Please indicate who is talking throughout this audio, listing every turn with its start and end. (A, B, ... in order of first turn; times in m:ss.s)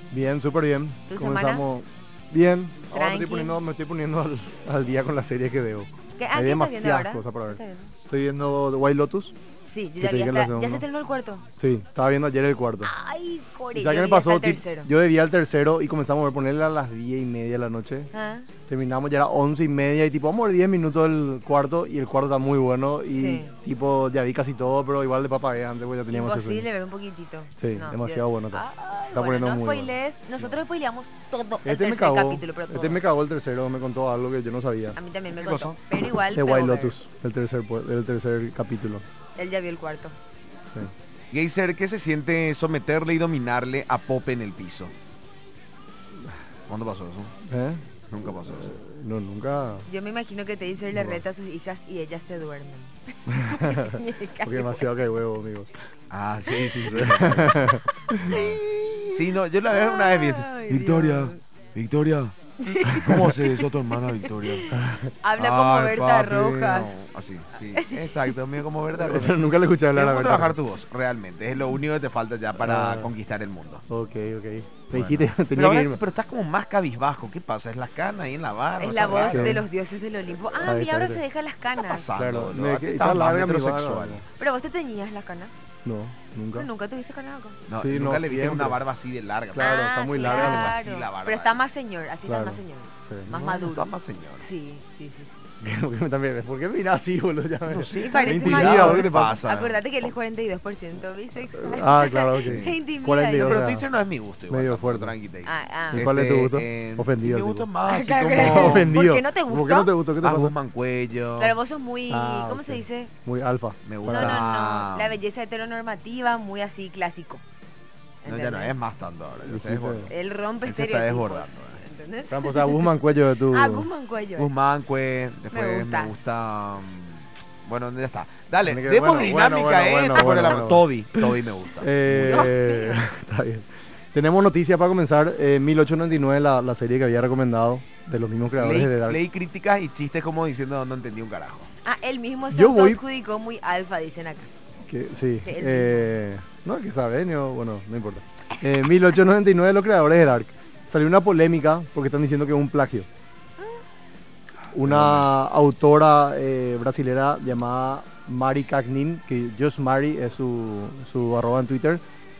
0:00.1-0:09.3 A
0:01.1-0:01.6 B
0:02.9-0:03.6 B
0:06.2-0:07.9 B
0:09.7-0:11.4 B
0:10.0-0:10.8 A
0:11.6-0:12.9 A
0:12.8-0:14.9 B
0:13.7-0:18.1 A
0:18.1-0:18.5 B
0:18.7-0:26.7 A
0:23.1-0:23.5 B
0:26.1-0:33.0 B
0:27.6-0:29.9 A
0:31.6-0:35.0 A
0:35.0-0:37.0 B
0:35.3-0:35.7 C
0:36.3-0:39.0 A
0:39.4-0:40.2 B
0:41.3-0:44.9 C
0:46.7-0:47.3 C
0:47.4-0:49.9 A
0:48.1-0:48.7 C
0:49.9-0:54.9 B
0:50.9-0:51.2 A
0:53.3-0:55.7 A
0:56.1-0:58.6 C
0:56.8-0:58.4 A
0:58.3-0:59.1 B
0:59.1-1:04.7 C
0:59.7-1:01.4 B
1:02.6-1:07.0 B
1:04.7-1:05.1 A
1:05.4-1:09.3 C
1:07.7-1:08.3 B
1:09.0-1:10.6 A
1:09.9-1:13.8 C
1:12.6-1:13.1 A
1:13.9-1:16.0 A
1:14.9-1:19.6 C
1:18.8-1:22.1 B
1:19.2-1:19.6 A
1:20.6-1:21.2 A
1:21.8-1:24.2 C
1:22.1-1:24.2 A
1:24.4-1:25.6 B
1:25.8-1:26.7 A
1:26.5-1:27.6 B
1:27.7-1:31.6 C
1:27.8-1:28.8 A
1:29.5-1:30.8 A
1:29.6-1:35.4 B
1:32.2-1:33.3 A
1:33.3-1:34.4 C
1:35.6-1:39.4 A
1:37.6-1:39.8 C
1:38.0-1:43.7 B
1:41.6-1:43.9 A
1:42.4-1:42.7 C
1:43.3-1:48.9 C
1:44.5-1:45.1 A
1:45.4-1:46.0 B
1:45.9-1:47.7 A
1:47.9-1:49.9 B
1:48.3-1:50.5 A
1:50.2-1:51.6 C
1:51.4-1:53.1 B
1:52.1-1:54.4 A
1:53.8-1:55.2 C
1:54.1-1:57.4 B
1:58.2-1:58.7 B
1:58.2-2:00.1 C
1:59.4-2:00.1 A
2:00.1-2:02.9 B
2:00.6-2:01.8 C
2:02.3-2:03.9 A
2:03.5-2:04.5 B
2:04.4-2:12.5 C
2:05.5-2:06.1 B
2:08.6-2:19.2 A
2:12.1-2:13.0 B
2:18.6-2:21.7 C
2:21.8-2:24.6 B
2:22.5-2:23.0 A
2:24.8-2:33.1 A
2:25.4-2:26.1 B
2:34.7-2:42.0 A
2:34.8-2:35.3 C